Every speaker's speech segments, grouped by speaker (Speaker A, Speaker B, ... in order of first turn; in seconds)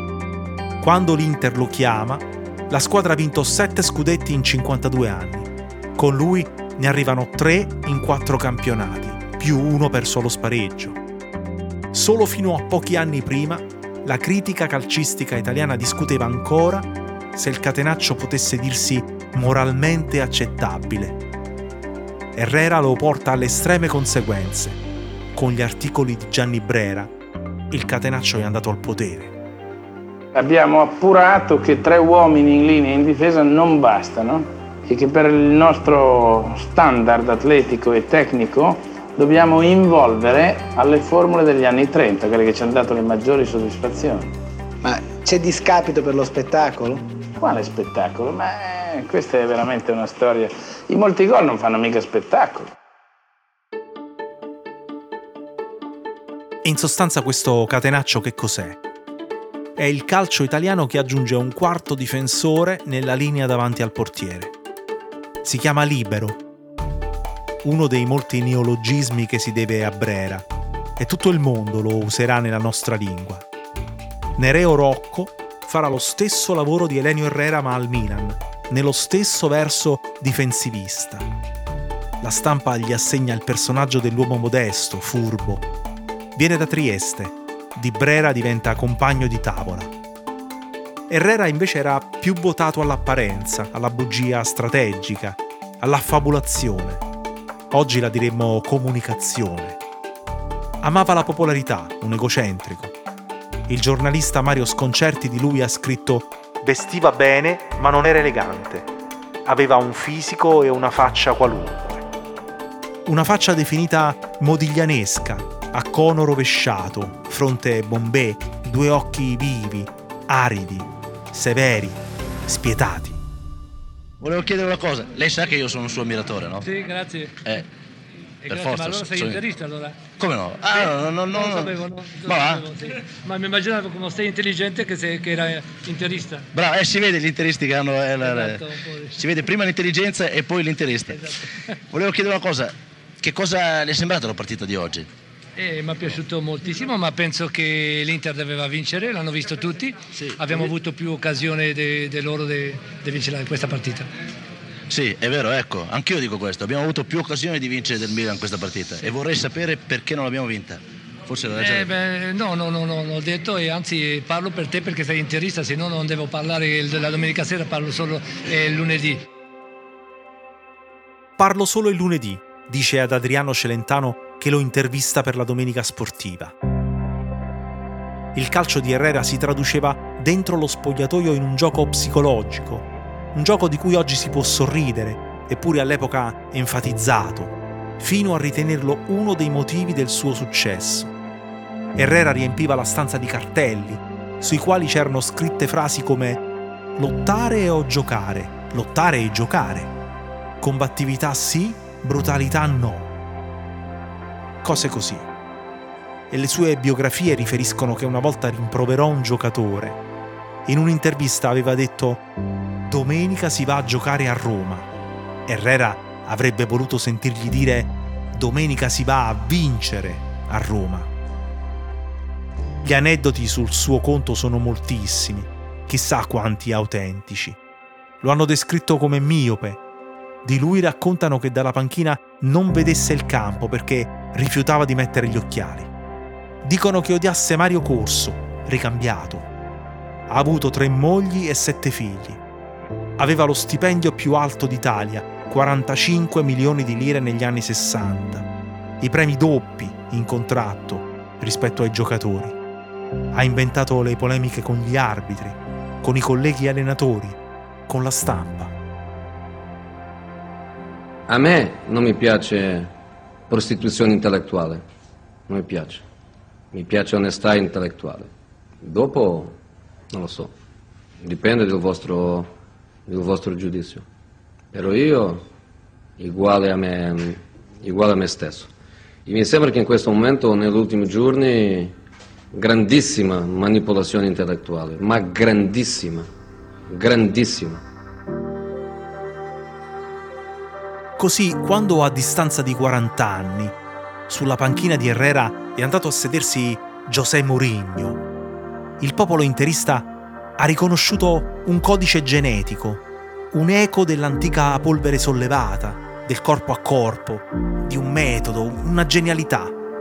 Speaker A: 0.8-11.0, 11.9-21.2, 22.4-24.8, 25.3-27.1, 27.7-29.3, 56.6-58.8, 59.8-64.5, 65.4-66.4, 67.6-70.5, 71.0-73.5, 74.4-81.3, 82.2-85.7, 86.3-89.9, 91.1-97.0, 97.7-99.8, 100.8-103.0, 103.7-108.9, 109.5-112.0, 113.0-123.2, 171.4-176.5, 178.3-191.1, 191.9-196.4, 196.9-199.9, 200.6-203.1, 204.6-205.3, 206.3-210.0, 210.7-212.2, 212.9-214.9, 215.5-221.1, 222.8-227.6, 228.2-229.8, 230.4-235.9, 236.6-239.5, 240.3-242.4, 243.2-248.5, 249.0-252.6, 253.3-258.7, 291.2-293.7, 294.3-298.2, 299.0-309.8
Speaker B: 30.3-44.3, 47.4-52.7
Speaker C: 44.8-47.0
Speaker D: 124.2-126.7, 128.5-129.4, 130.2-132.6, 136.5-141.2, 141.9-145.1, 150.2-150.7, 154.9-161.9
Speaker E: 126.6-127.5, 128.4-130.0, 130.8-136.4, 138.2-139.2, 141.1-141.7, 145.6-154.1, 161.6-169.3
Speaker F: 261.3-262.9, 263.5-264.8, 265.5-266.0, 266.7-268.3, 268.8-269.6, 270.1-270.5, 271.2-272.5, 273.1-274.1, 274.7-275.4, 276.2-278.7, 279.2-281.9, 282.5-286.3, 286.9-287.8